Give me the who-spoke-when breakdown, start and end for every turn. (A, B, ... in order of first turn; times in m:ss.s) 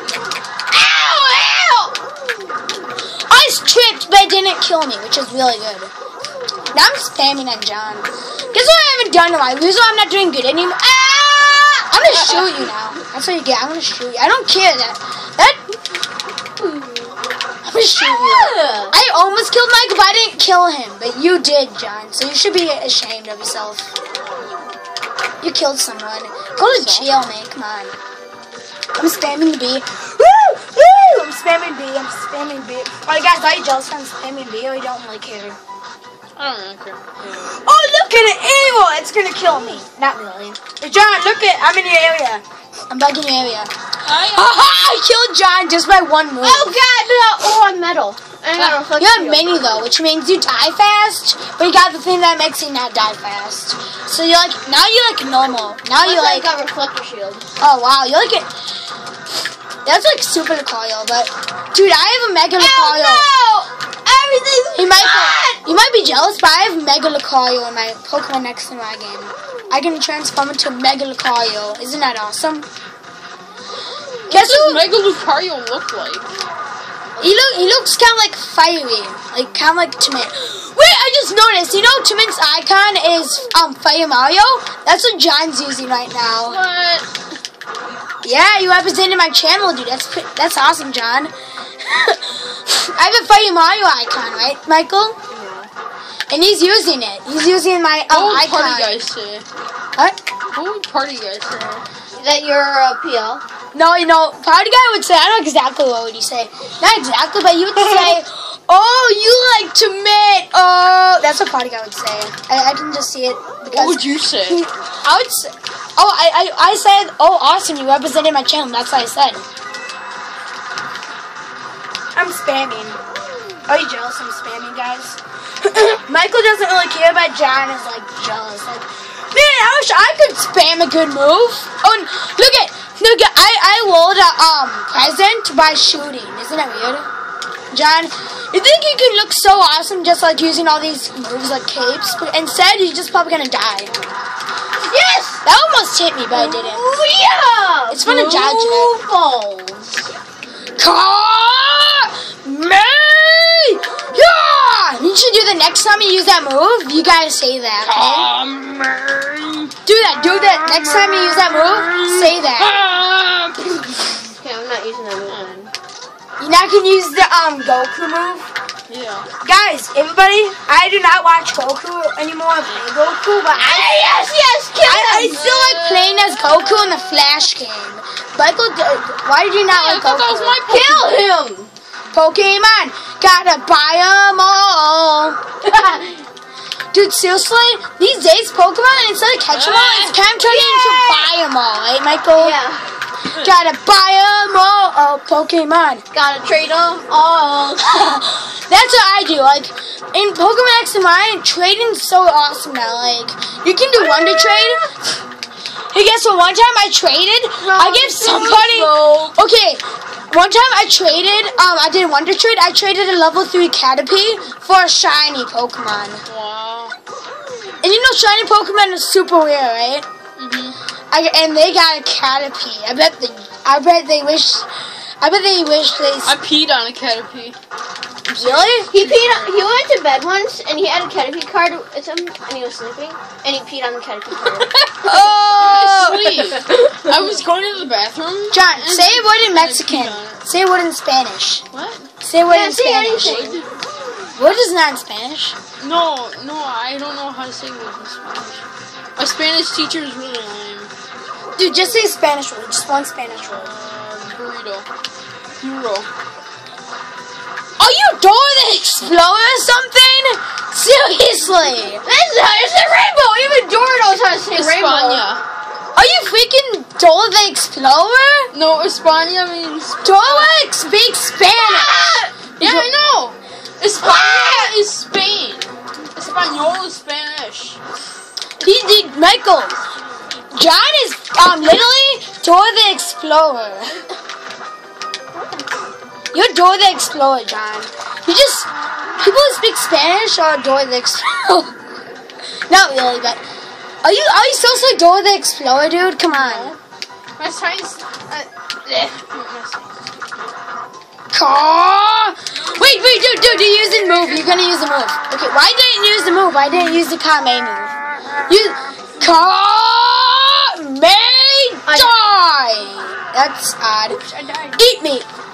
0:00.7-0:02.0 A
0:03.3-0:05.9 B
0:06.7-0:15.6 B
0:11.5-0:11.9 A
0:16.6-0:17.2 A
0:17.6-0:23.9 B
0:18.0-0:18.9 A
0:25.4-0:27.9 B
0:26.7-0:27.1 C
0:29.0-0:35.6 B
0:36.4-0:37.2 C
0:37.2-0:37.5 A
0:37.5-0:46.8 B
0:44.0-0:44.6 C
0:46.4-0:49.6 A
0:48.6-0:56.5 B
0:56.0-0:57.5 A
0:57.6-0:58.5 B
0:59.8-1:03.3 B
1:02.6-1:05.6 A
1:04.7-1:12.7 B
1:14.3-1:14.8 B
1:14.3-1:16.4 C
1:17.2-1:26.6 B
1:26.4-1:27.1 C
1:28.2-1:35.2 B
1:35.3-1:35.7 A
1:36.3-1:38.9 B
1:38.1-1:39.5 C
1:40.5-1:41.9 C
1:42.2-1:43.4 A
1:43.7-1:59.4 B
1:47.8-1:48.2 C
1:53.7-1:54.6 C
2:02.2-2:03.0 B
2:03.7-2:17.1 B
2:17.7-2:23.9 B
2:24.8-2:25.4 A
2:25.4-2:26.8 B
2:26.3-2:30.1 A
2:27.9-2:28.9 B
2:30.8-2:38.3 B
2:37.8-2:39.7 C
2:39.9-2:42.8 B
2:40.3-2:44.3 C
2:44.3-2:45.7 A
2:45.3-2:45.5 C
2:46.4-2:48.5 B
2:48.9-2:49.3 C
2:49.4-2:54.0 B
2:53.6-2:55.5 A
2:54.8-3:00.6 B
2:55.3-2:57.0 C
2:59.7-3:01.2 C
3:00.6-3:01.7 A
3:02.1-3:06.0 B
3:05.7-3:06.1 A
3:06.9-3:12.6 B
3:09.5-3:10.2 C
3:10.4-3:11.3 A
3:12.4-3:12.8 A
3:13.4-3:16.0 B
3:16.1-3:18.1 A
3:17.8-3:24.8 B
3:24.0-3:24.9 A
3:25.9-3:36.2 B
3:27.6-3:29.4 A
3:36.3-3:37.0 C
3:37.8-3:40.1 B
3:40.4-3:40.8 C
3:41.1-3:44.7 B
3:45.2-3:46.4 B
3:46.2-3:47.6 C
3:48.3-3:49.6 C
3:48.3-3:48.9 B
3:48.9-3:57.3 A
3:54.5-4:00.4 C
3:55.0-3:56.2 B
3:58.5-4:01.6 B
4:01.7-4:02.1 C
4:02.2-4:03.5 B
4:02.5-4:03.7 A
4:03.2-4:03.7 C
4:04.4-4:05.6 B
4:05.8-4:10.9 C
4:11.6-4:13.7 B
4:13.3-4:14.9 C
4:15.6-4:16.1 C
4:17.8-4:22.0 B
4:22.0-4:25.2 A
4:24.5-4:25.4 C
4:26.0-4:28.5 B
4:28.5-4:30.6 C
4:30.0-4:32.9 B
4:31.5-4:32.3 A
4:32.6-4:37.8 C
4:34.0-4:34.8 A
4:38.6-4:39.8 B
4:40.5-4:44.0 B
4:46.3-4:51.7 B
4:52.7-4:53.4 B
4:54.0-4:56.7 B
4:56.3-4:56.8 C
4:57.4-5:00.1 C
5:01.3-5:08.0 B
5:08.5-5:14.2 B
5:11.9-5:12.2 A
5:14.2-5:14.8 C
5:14.8-5:15.3 B